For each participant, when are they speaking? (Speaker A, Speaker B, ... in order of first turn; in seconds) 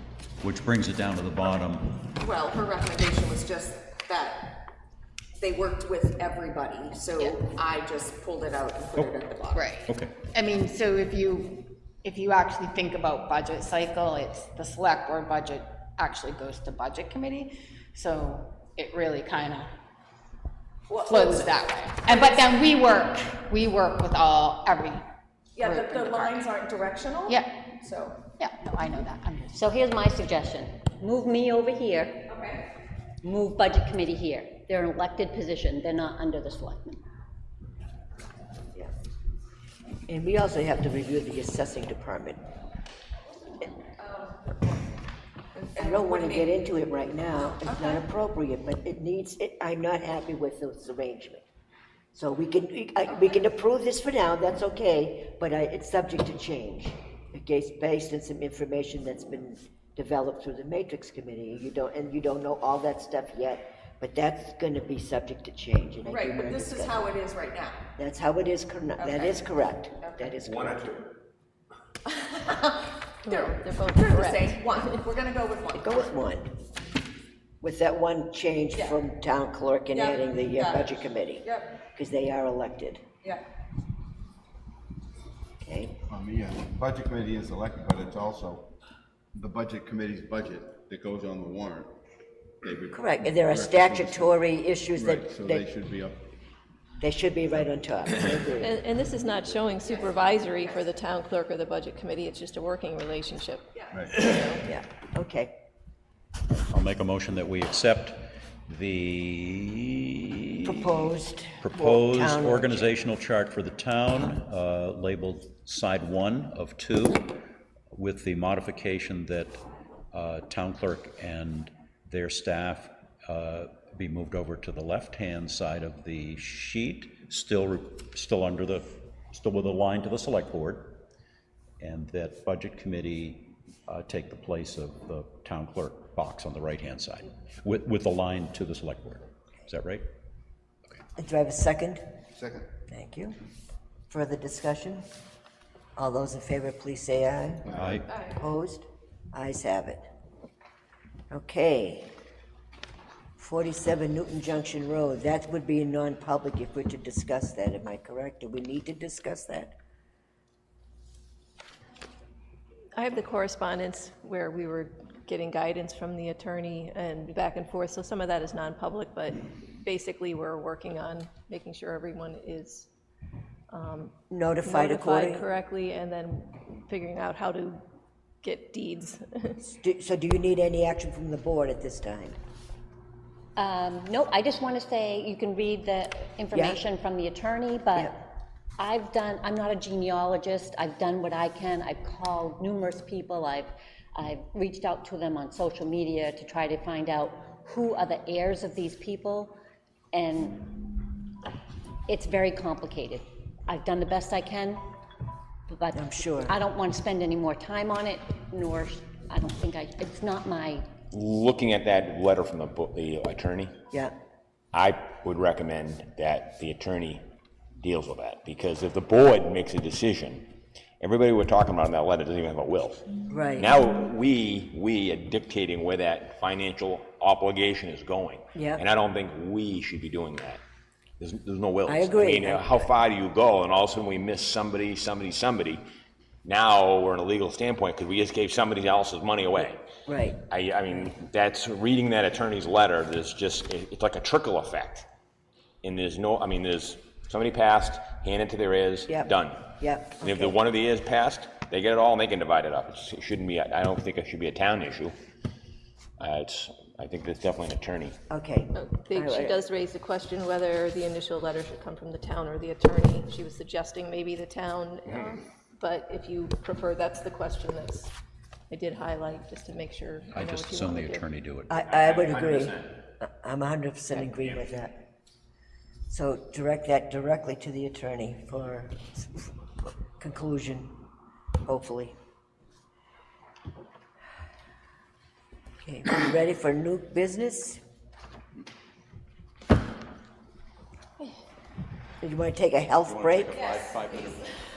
Speaker A: 0.4-2.0, 9.8-10.2, 106.7-111.1, 111.6-117.3, 117.9-119.6, 120.1-131.0, 131.8-140.0, 147.7-148.1, 270.3-271.7
Speaker B: 2.2-4.6, 5.4-9.9, 20.9-22.8, 25.6-28.3, 32.3-32.6, 44.0-44.8, 45.5-46.5, 47.6-48.0, 66.0-67.8, 69.0-69.4, 72.0-76.1, 79.9-81.8, 99.8-100.8, 103.8-104.5, 293.5-294.4
Speaker C: 10.3-19.7, 21.1-25.0, 25.6-26.4, 27.3-27.6, 28.4-29.6
Speaker D: 29.5-32.4, 33.2-37.0, 183.6-199.5, 200.1-201.0, 202.1-204.8, 205.7-210.9
Speaker E: 40.1-42.4, 45.8-51.4, 52.1-67.1, 68.0-71.0, 75.7-76.5, 77.6-83.0, 85.6-86.0, 92.9-95.6, 97.0-98.8, 104.6-105.5, 110.7-112.9, 141.2-142.0, 142.9-143.3, 144.1-145.0, 145.9-150.0, 151.3-152.1, 153.4-159.7, 174.3-175.4, 179.6-182.3, 186.5-186.8, 205.9-206.5, 223.3-223.8, 228.5-228.8, 231.8-232.7, 240.1-240.4, 249.1-250.6, 258.3-259.6, 271.7-275.0, 276.1-279.5, 280.2-280.9, 281.6-282.1, 285.8-287.8, 292.2-293.7
Speaker F: 70.4-71.1, 211.1-213.7, 214.7-217.2, 217.8-220.5, 221.0-223.0, 223.6-230.6, 231.2-235.8, 236.4-239.8, 240.5-245.1, 245.8-255.1, 256.2-258.1, 271.9-273.0
Speaker G: 73.2-75.0, 98.6-103.7, 148.1-148.3, 162.9-172.9, 173.7-174.1, 174.6-177.8, 178.4-179.6, 258.7-268.1, 268.7-271.2
Speaker H: 86.1-88.7, 89.3-91.9, 92.6-94.3, 94.9-96.3, 103.9-104.2, 142.3-142.7, 147.7-148.0